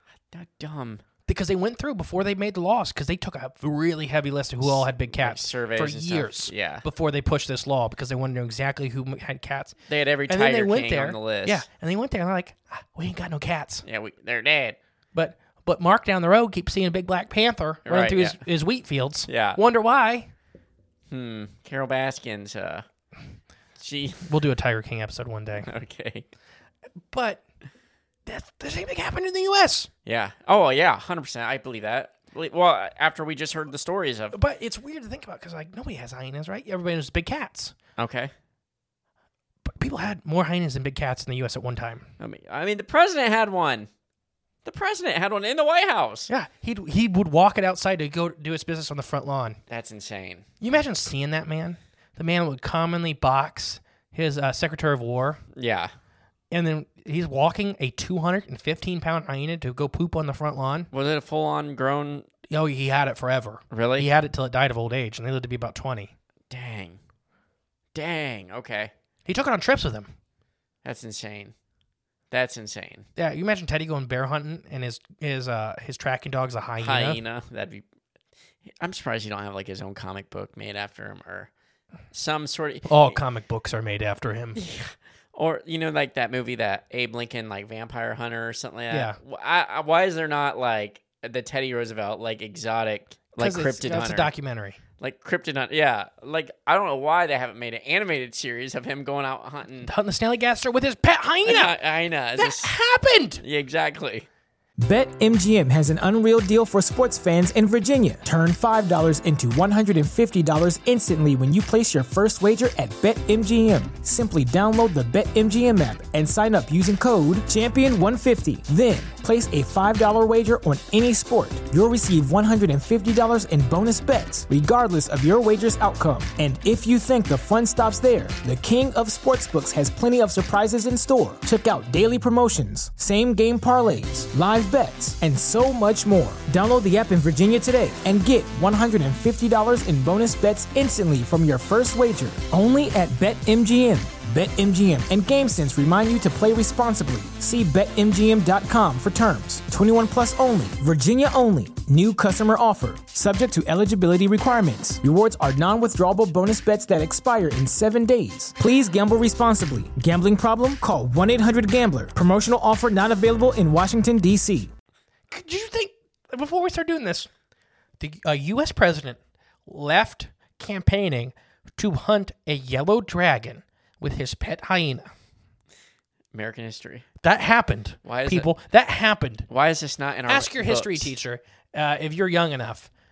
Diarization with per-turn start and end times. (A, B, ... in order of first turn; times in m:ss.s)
0:00.3-0:01.0 A
0:01.3-0:09.8 B
0:04.6-0:06.8 A
0:09.9-0:11.7 A
0:10.3-0:13.8 B
0:13.8-0:14.8 A
0:15.1-0:20.3 B
0:17.9-0:18.4 A
0:19.3-0:19.6 A
0:21.1-0:22.8 A
0:23.8-0:24.3 A
0:24.3-0:25.7 B
0:25.6-0:26.3 A
0:27.1-0:27.4 B
0:28.3-0:29.9 B
0:30.1-0:34.4 A
0:34.3-0:37.8 B
0:38.0-0:38.3 A
0:39.6-0:42.1 B
0:42.2-0:43.9 A
0:44.6-0:46.3 A
0:46.3-0:49.6 B
0:49.7-0:50.5 A
0:50.6-0:55.4 B
0:55.6-0:55.9 A
0:56.5-1:00.9 B
1:00.9-1:02.3 A
1:02.5-1:06.1 B
1:03.7-1:04.1 A
1:06.5-1:07.0 A
1:08.0-1:08.9 A
1:09.3-1:10.1 B
1:10.8-1:11.5 A
1:12.3-1:13.1 A
1:13.2-1:17.2 B
1:16.8-1:17.8 A
1:18.8-1:21.5 A
1:22.1-1:23.2 A
1:22.9-1:24.6 B
1:24.6-1:34.3 A
1:28.9-1:29.2 B
1:33.4-1:34.8 B
1:35.0-1:39.9 A
1:39.8-1:41.8 B
1:41.4-1:42.7 A
1:42.4-1:43.4 B
1:43.4-1:44.3 A
1:44.8-2:44.7 C
2:45.3-2:47.3 B
2:48.0-2:55.1 B
2:56.3-2:57.0 A
2:57.2-2:59.5 B
2:58.0-2:58.5 A
2:59.5-3:01.1 A
3:00.3-3:02.9 B